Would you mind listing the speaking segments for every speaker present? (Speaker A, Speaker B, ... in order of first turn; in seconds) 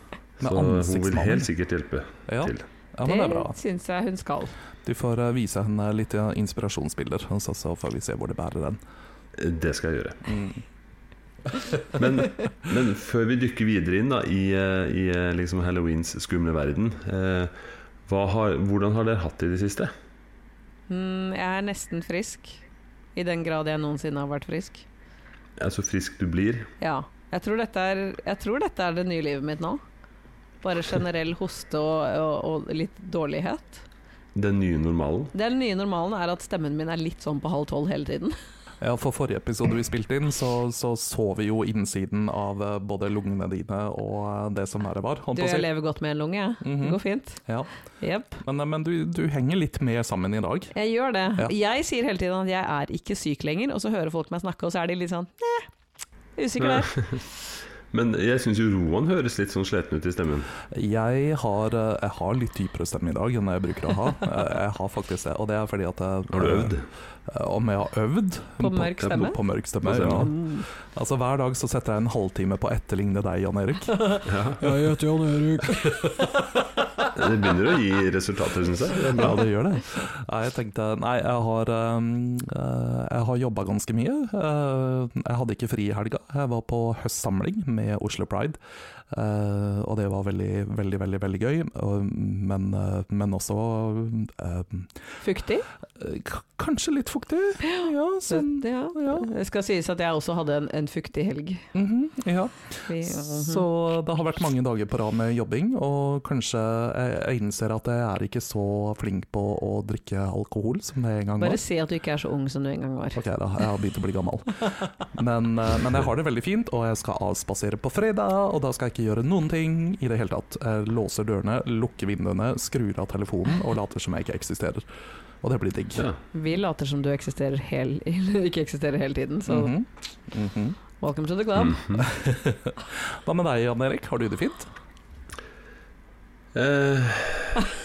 Speaker A: 0.4-1.5, 2.3-3.5, 4.8-8.8, 10.2-10.6, 38.8-45.7, 46.6-47.7, 48.4-50.7, 60.7-76.6, 79.1-88.6, 89.1-95.0, 96.0-99.3, 101.7-111.6, 113.1-124.8, 125.4-126.1, 129.4-130.8, 132.0-134.7
Speaker B: 0.4-2.6, 9.3-10.2, 11.9-17.5, 18.1-19.9, 25.6-26.7, 34.3-35.3, 56.6-57.2, 57.9-60.5, 66.3-66.9, 69.8-70.3, 74.2-74.8, 77.1-79.5, 131.6-132.1, 136.5-137.7
Speaker C: 3.0-4.5, 20.9-22.6, 23.1-24.9, 26.8-29.8, 30.6-33.8, 35.3-38.4, 45.3-47.4, 48.0-48.4, 50.7-55.7, 56.4-57.2, 68.6-69.4, 70.0-70.7, 75.7-75.9, 95.2-95.7, 97.6-101.7, 102.8-103.7, 111.4-113.2, 126.3-129.7, 131.0-131.8